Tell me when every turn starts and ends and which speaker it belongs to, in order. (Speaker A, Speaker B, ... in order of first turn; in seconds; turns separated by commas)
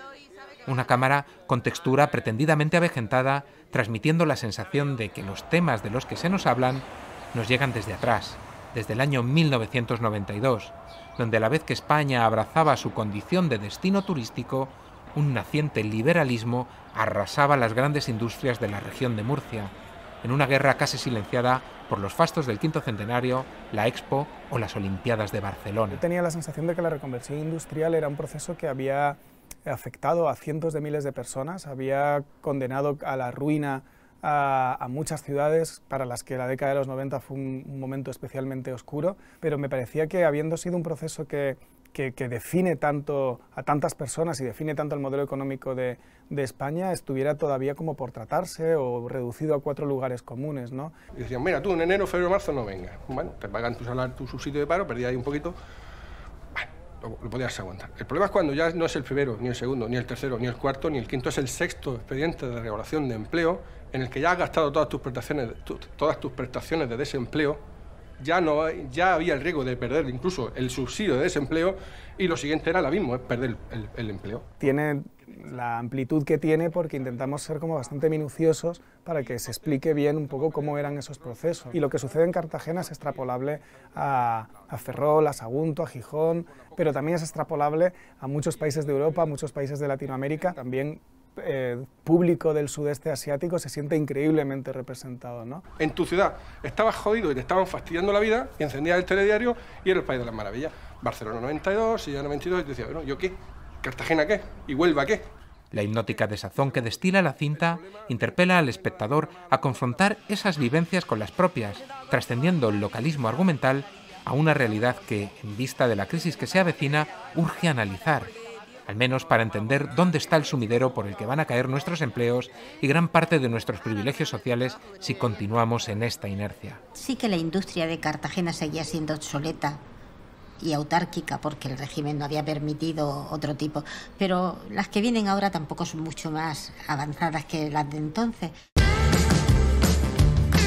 Speaker A: 0.7-26.0, Speaker B: 25.9-50.9, Speaker C: 51.1-55.6, Speaker C: 56.6-67.6, Speaker C: 68.2-74.4, Speaker B: 74.6-95.6, Speaker C: 95.8-105.3, Speaker A: 105.7-118.3, Speaker A: 118.9-126.8, Speaker D: 127.1-129.7, Speaker D: 130.7-134.5, Speaker D: 135.1-136.0, Speaker D: 137.9-138.4